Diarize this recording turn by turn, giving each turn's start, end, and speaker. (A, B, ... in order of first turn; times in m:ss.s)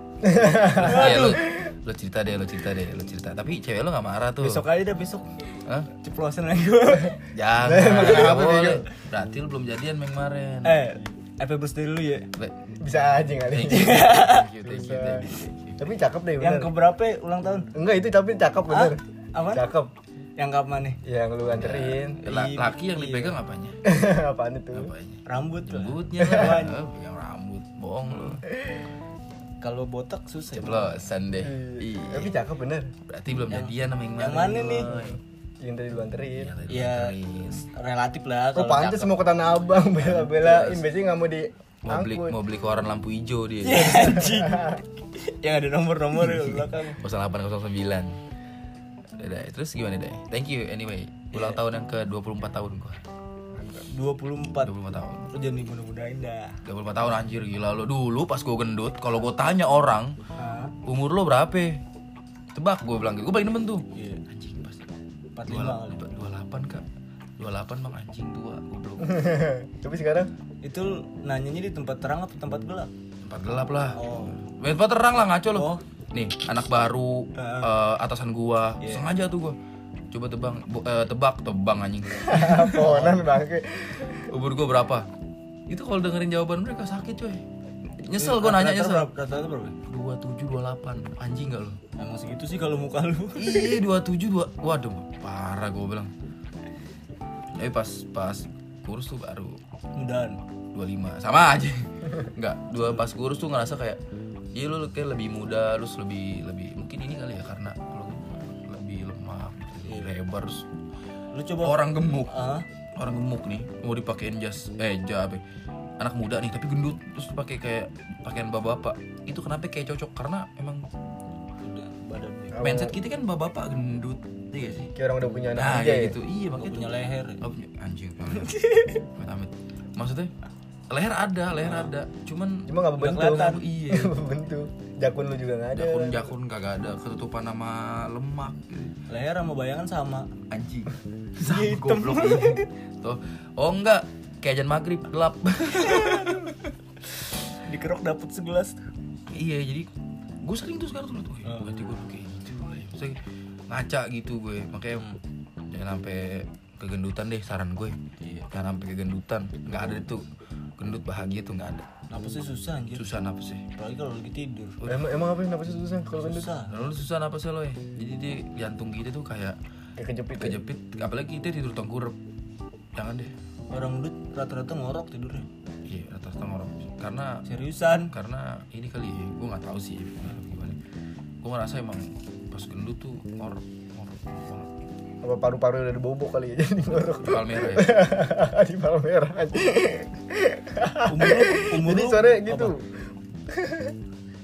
0:00.2-0:01.6 A
0:00.6-0:04.6 B
0:00.8-0:01.4 C
0:04.4-0:05.4 C
0:05.6-0:05.9 B
0:06.0-0:07.2 C
0:07.3-0:10.9 B
0:07.6-0:08.8 A
0:07.9-0:08.5 C
0:10.6-0:12.3 C
0:12.8-0:15.2 A
0:13.4-0:15.9 B
0:13.7-0:14.5 C
0:15.8-0:16.7 A
0:16.4-0:17.7 C
0:17.7-0:19.9 A
0:18.7-0:19.7 C
0:20.4-0:21.0 C
0:21.0-0:22.2 A
0:21.5-0:23.8 B
0:22.2-0:23.4 C
0:23.8-0:24.9 A
0:24.7-0:28.4 B
0:25.2-0:26.8 C
0:26.2-0:26.6 A
0:28.1-0:28.4 C
0:29.6-0:31.0 C
0:30.5-0:32.3 B
0:31.4-0:32.9 A
0:33.1-0:35.2 B
0:33.5-0:34.9 C
0:34.9-0:36.5 A
0:36.4-0:37.7 B
0:36.7-0:39.2 C
0:38.6-0:42.4 A
0:40.0-0:40.8 B
0:41.8-0:44.2 B
0:43.6-0:47.0 C
0:44.0-0:44.7 A
0:46.3-0:48.2 B
0:49.2-0:53.0 B
0:51.3-0:51.6 C
0:53.6-0:53.9 A
0:53.9-0:54.7 C
0:54.6-0:55.3 B
0:55.3-0:56.6 C
0:56.6-1:00.2 B
1:00.4-1:00.8 C
1:00.8-1:01.8 B
1:02.5-1:04.9 B
1:03.9-1:04.2 C
1:05.4-1:06.0 C
1:05.5-1:06.8 B
1:07.4-1:09.2 B
1:09.0-1:10.3 A
1:10.6-1:12.9 C
1:13.2-1:19.6 B
1:14.0-1:14.4 C
1:15.5-1:15.8 C
1:17.4-1:17.8 C
1:18.8-1:19.1 C
1:20.1-1:23.1 B
1:22.2-1:24.2 A
1:22.8-1:23.3 C
1:24.1-1:25.1 B
1:25.7-1:27.4 B
1:28.0-1:29.1 B
1:28.2-1:29.8 C
1:29.9-1:31.8 B
1:32.0-1:33.8 C
1:33.4-1:36.1 B
1:37.6-1:39.6 B
1:39.9-1:40.4 C
1:40.7-1:44.0 B
1:42.8-1:43.1 C
1:44.5-1:50.6 B
1:49.8-1:50.1 C
1:51.3-1:52.6 C
1:51.6-1:52.3 B
1:53.0-1:55.4 B
1:56.0-2:00.9 B
2:01.6-2:02.7 C
2:02.5-2:03.0 A
2:02.6-2:04.9 B
2:05.0-2:06.2 A
2:05.5-2:10.3 B
2:06.6-2:07.4 C
2:08.4-2:09.0 C
2:10.9-2:14.2 B
2:11.6-2:11.9 C
2:12.7-2:16.3 A
2:13.0-2:13.6 C
2:15.8-2:19.0 B
2:19.1-2:20.3 C
2:20.5-2:26.7 B
2:21.4-2:22.7 C
2:25.7-2:26.5 C
2:27.5-2:28.8 C
2:29.3-2:29.9 B
2:30.4-2:33.2 B
2:31.4-2:31.7 C
2:33.7-2:35.1 B
2:35.7-2:38.0 B
2:38.2-2:38.5 C
2:38.5-2:40.2 B
2:40.8-2:41.9 B
2:42.1-2:43.0 C
2:43.0-2:43.7 B
2:43.8-2:44.8 C
2:44.8-2:46.5 A
2:46.2-2:46.7 C
2:46.7-2:49.6 B
2:50.0-2:50.6 A
2:50.4-2:52.2 B
2:53.0-2:53.3 B
2:53.7-2:55.5 C
2:55.9-2:57.4 B
2:57.5-2:58.1 C
2:58.1-3:00.8 B
3:01.4-3:04.7 B
3:05.2-3:12.9 A
3:06.9-3:08.1 B
3:11.1-3:12.7 C
3:13.5-3:13.9 A